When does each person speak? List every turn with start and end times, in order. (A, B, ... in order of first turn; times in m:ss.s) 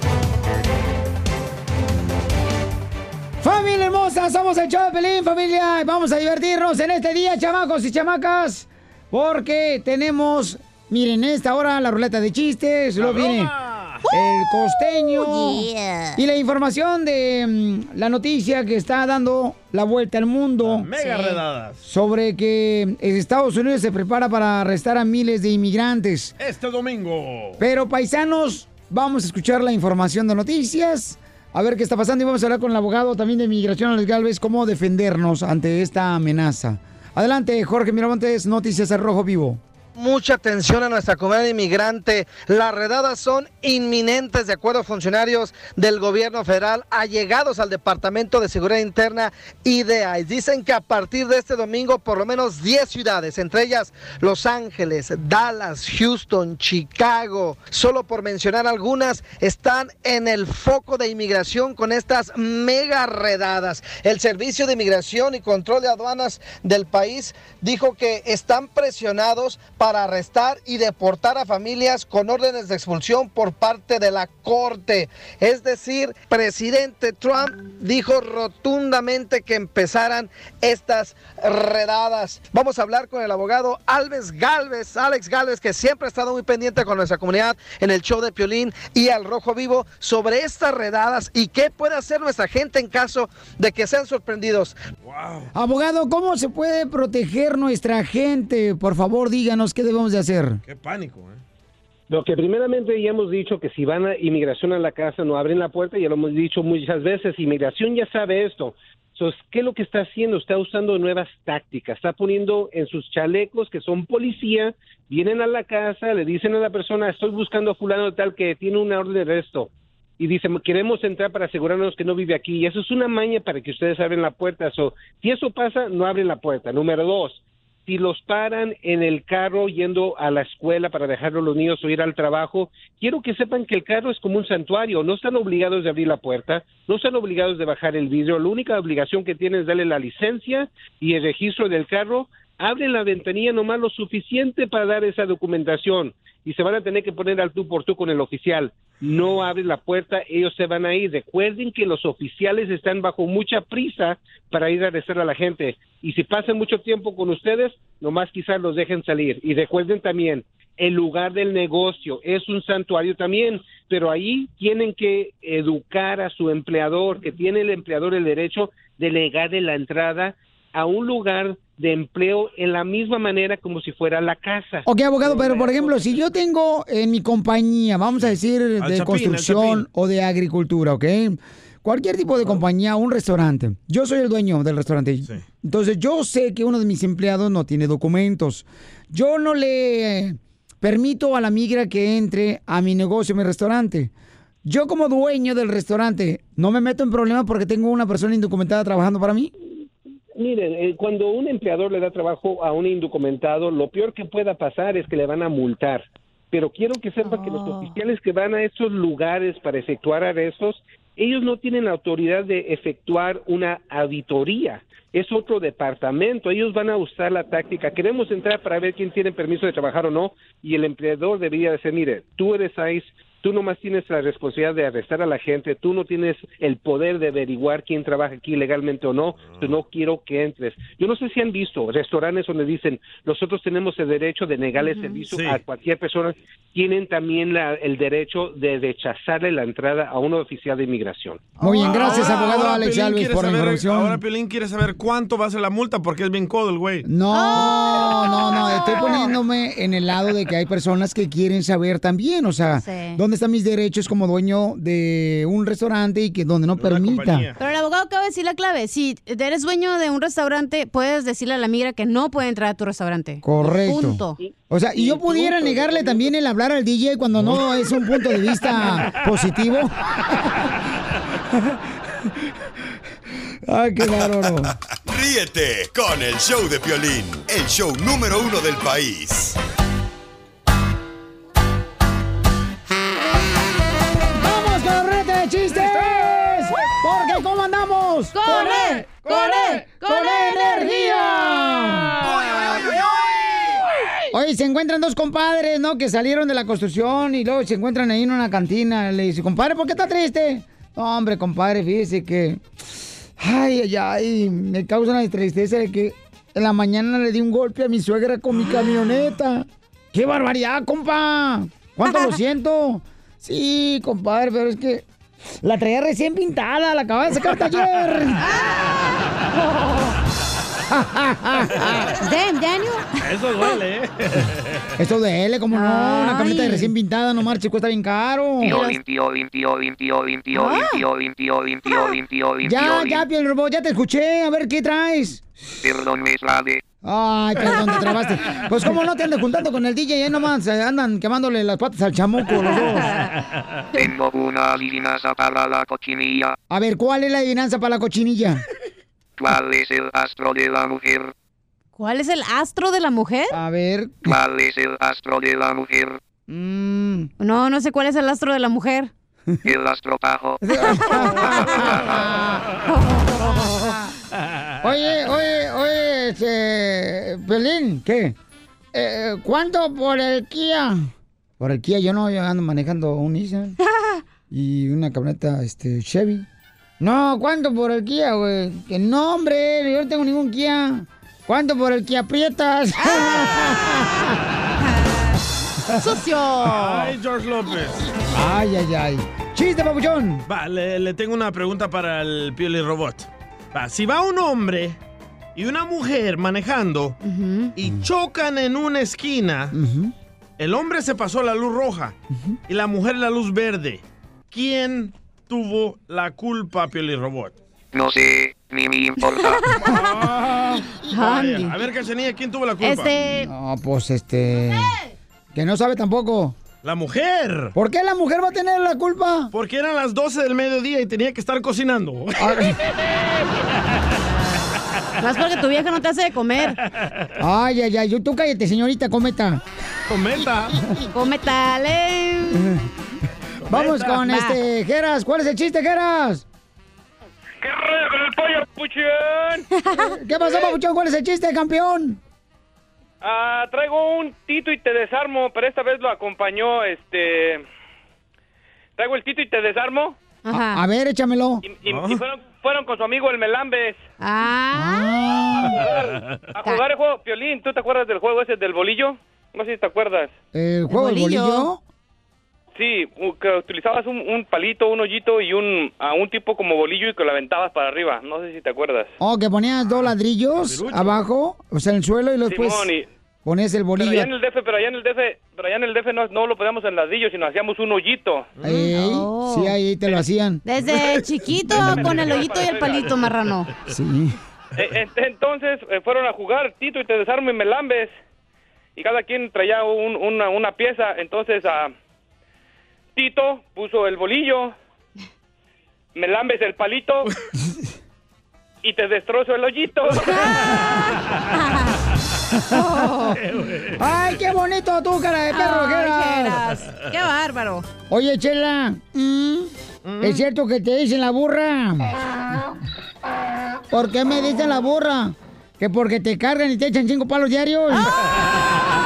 0:03.4-0:13.5 A
0:13.0-0:14.0 B
0:14.1-0:16.2 C
0:14.1-0:20.9 A
0:20.6-0:21.8 B
0:21.0-0:21.4 C
0:21.8-0:26.3 A
0:26.4-0:27.6 B
0:27.6-0:39.6 A
0:40.0-1:34.8 D
1:35.0-1:35.5 B
1:35.5-1:40.6 A
1:40.6-1:41.4 B
1:42.1-2:56.2 E
2:54.8-3:14.1 A
2:58.8-2:59.8 B
3:14.6-3:19.5 A
3:20.4-4:01.4 E
3:27.3-3:27.9 C
3:54.8-3:55.2 C
3:55.3-3:55.6 B
4:01.6-4:02.6 C
4:01.6-4:04.2 A
4:01.8-4:07.1 B
4:07.0-4:17.5 A
4:07.3-4:09.4 C
4:12.8-4:13.2 C
4:16.8-4:17.6 B
4:17.6-4:24.4 C
4:23.4-4:29.9 A
4:25.0-4:26.2 E
4:27.3-4:27.6 B
4:33.7-4:34.7 A
4:35.1-4:39.6 F
4:44.4-4:52.8 A
4:48.3-4:51.8 C
4:54.3-5:02.6 A
5:03.4-5:15.0 A
5:15.6-5:18.4 A
5:18.4-5:19.0 C
5:20.9-5:21.8 A
5:21.8-5:23.2 C
5:23.2-5:24.8 B
5:25.0-5:28.8 A
5:25.7-5:26.9 C
5:28.6-5:33.2 G
5:28.7-5:29.0 C
5:30.6-5:31.0 C
5:32.6-5:35.4 A
5:35.8-5:36.8 G
5:37.0-5:43.1 A
5:42.8-5:43.1 C
5:43.9-5:46.5 G
5:46.7-5:48.6 A
5:49.4-5:51.3 G
5:52.0-5:53.5 C
5:53.5-5:54.3 A
5:54.2-5:56.2 G
5:56.5-5:57.3 A
5:57.4-5:59.1 C
5:59.6-6:00.6 G
6:00.6-6:02.6 A
6:02.9-6:03.9 C
6:03.8-6:04.0 A
6:04.8-6:08.3 A
6:08.9-6:11.1 A
6:11.6-6:13.8 A
6:14.5-6:16.4 A
6:17.0-6:24.2 A
6:23.0-6:23.3 C
6:25.9-6:27.1 C
6:26.6-6:28.0 B
6:28.3-6:30.4 A
6:30.5-6:35.0 B
6:35.6-6:37.2 B
6:37.2-6:37.7 C
6:37.8-6:39.8 B
6:39.7-6:40.1 A
6:40.6-6:42.2 B
6:42.7-6:47.5 B
6:47.9-6:49.6 G
6:49.9-6:53.1 B
6:51.1-6:51.7 C
6:52.8-6:53.5 C
6:53.3-6:55.0 A
6:55.5-6:56.5 A
6:56.8-6:57.7 B
6:57.7-6:59.5 A
6:59.5-7:02.8 B
7:02.4-7:02.8 A
7:05.2-7:06.8 C
7:07.4-7:09.6 A
7:10.1-7:10.8 B
7:11.1-7:12.6 C
7:12.5-7:12.8 A
7:13.7-7:16.4 A
7:13.7-7:14.2 B
7:14.2-7:14.6 C
7:17.6-7:19.6 H
7:19.7-7:20.2 C
7:20.0-7:22.2 A
7:23.2-7:27.6 H
7:29.0-7:30.2 H
7:30.4-7:30.8 C
7:30.5-7:31.6 A
7:31.6-7:34.0 H
7:31.9-7:32.2 B
7:34.2-7:35.1 C
7:34.7-7:35.8 A
7:35.8-7:40.3 H
7:36.6-7:36.8 C
7:40.5-7:41.8 A
7:40.9-7:41.7 C
7:42.7-7:49.1 H
7:49.2-7:52.9 A
7:50.6-7:51.2 B
7:52.5-7:53.1 H
7:53.4-7:54.3 A
7:54.0-7:58.5 H
7:58.6-8:00.6 A
7:58.7-7:59.7 C
8:00.6-8:03.7 C
8:00.8-8:02.4 B
8:01.7-8:03.1 H
8:03.0-8:03.3 B
8:03.9-8:04.3 A
8:04.8-8:08.1 H
8:09.0-8:11.9 H
8:13.2-8:14.7 H
8:16.2-8:17.3 H
8:18.8-8:20.3 H
8:21.6-8:21.9 C
8:22.7-8:23.4 C
8:23.4-8:24.0 B
8:24.0-8:26.6 A
8:25.5-8:27.8 C
8:28.1-8:32.1 A
8:30.0-8:30.4 B
8:33.9-8:38.1 A